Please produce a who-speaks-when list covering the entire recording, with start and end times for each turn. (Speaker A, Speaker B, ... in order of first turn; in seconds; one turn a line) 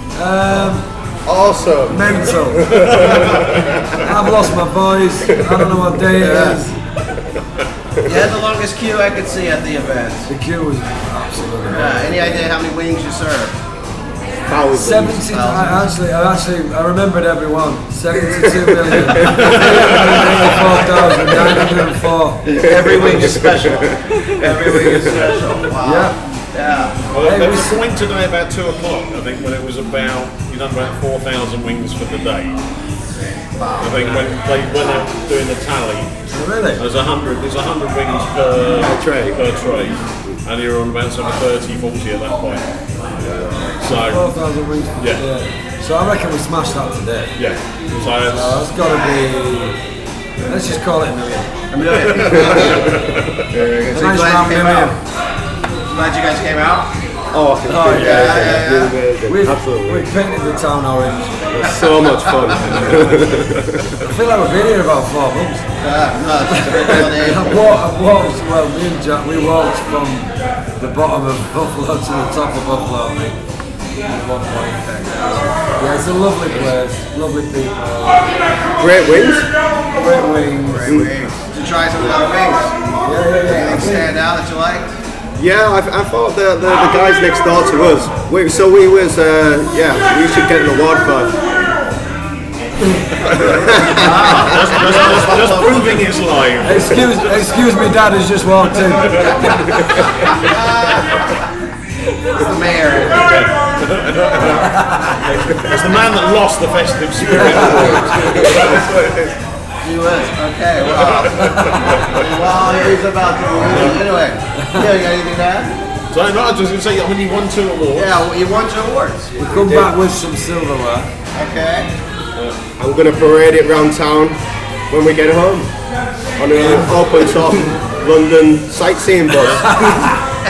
Speaker A: 0.1-0.9
Speaker B: 1.2-4.1
Speaker A: 1.9-3.0
Speaker C: 2.9-3.7
Speaker A: 3.9-6.8
Speaker B: 5.3-6.6
Speaker D: 8.0-10.3
Speaker A: 10.3-12.4
Speaker D: 11.7-13.6
Speaker B: 14.4-15.3
Speaker A: 14.7-22.5
Speaker D: 15.2-15.8
Speaker C: 19.2-20.4
Speaker D: 22.4-27.0
Speaker A: 25.8-26.2
Speaker C: 27.1-32.6
Speaker A: 27.2-27.8
Speaker D: 33.6-34.2
Speaker C: 33.8-36.1
Speaker A: 36.3-36.8
Speaker C: 36.8-42.7
Speaker B: 38.8-39.4
Speaker C: 43.8-44.3
Speaker A: 43.8-47.3
Speaker C: 47.4-48.6
Speaker A: 48.1-49.8
Speaker A: 50.4-51.5
Speaker D: 51.7-52.9
Speaker C: 52.1-53.3
Speaker B: 52.2-54.2
Speaker A: 53.9-55.0
Speaker D: 54.0-55.0
Speaker D: 55.9-56.9
Speaker B: 57.3-60.1
Speaker A: 57.7-58.7
Speaker D: 57.9-59.0
Speaker A: 59.3-61.9
Speaker B: 61.6-64.0
Speaker A: 64.0-65.7
Speaker D: 65.8-67.8
Speaker A: 66.5-73.4
Speaker A: 74.0-75.0
Speaker D: 74.9-75.6
Speaker A: 75.8-78.4
Speaker B: 78.8-79.5
Speaker A: 79.9-81.0
Speaker D: 80.7-82.8
Speaker B: 80.8-81.2
Speaker A: 83.0-84.2
Speaker D: 83.5-85.0
Speaker B: 85.4-91.4
Speaker C: 93.3-97.5
Speaker B: 93.5-94.0
Speaker D: 93.8-96.1
Speaker A: 96.6-99.9
Speaker D: 100.2-101.2
Speaker D: 102.3-103.4
Speaker C: 103.2-104.8
Speaker C: 105.4-109.3
Speaker A: 107.4-108.0
Speaker B: 107.5-109.2
Speaker D: 109.8-115.8
Speaker C: 110.9-112.2
Speaker C: 113.6-114.1
Speaker C: 116.1-118.3
Speaker D: 118.0-119.3
Speaker A: 119.4-121.1
Speaker B: 119.5-119.9
Speaker D: 121.3-121.9
Speaker B: 122.8-125.7
Speaker B: 126.4-130.0
Speaker A: 126.5-127.0
Speaker A: 129.6-130.2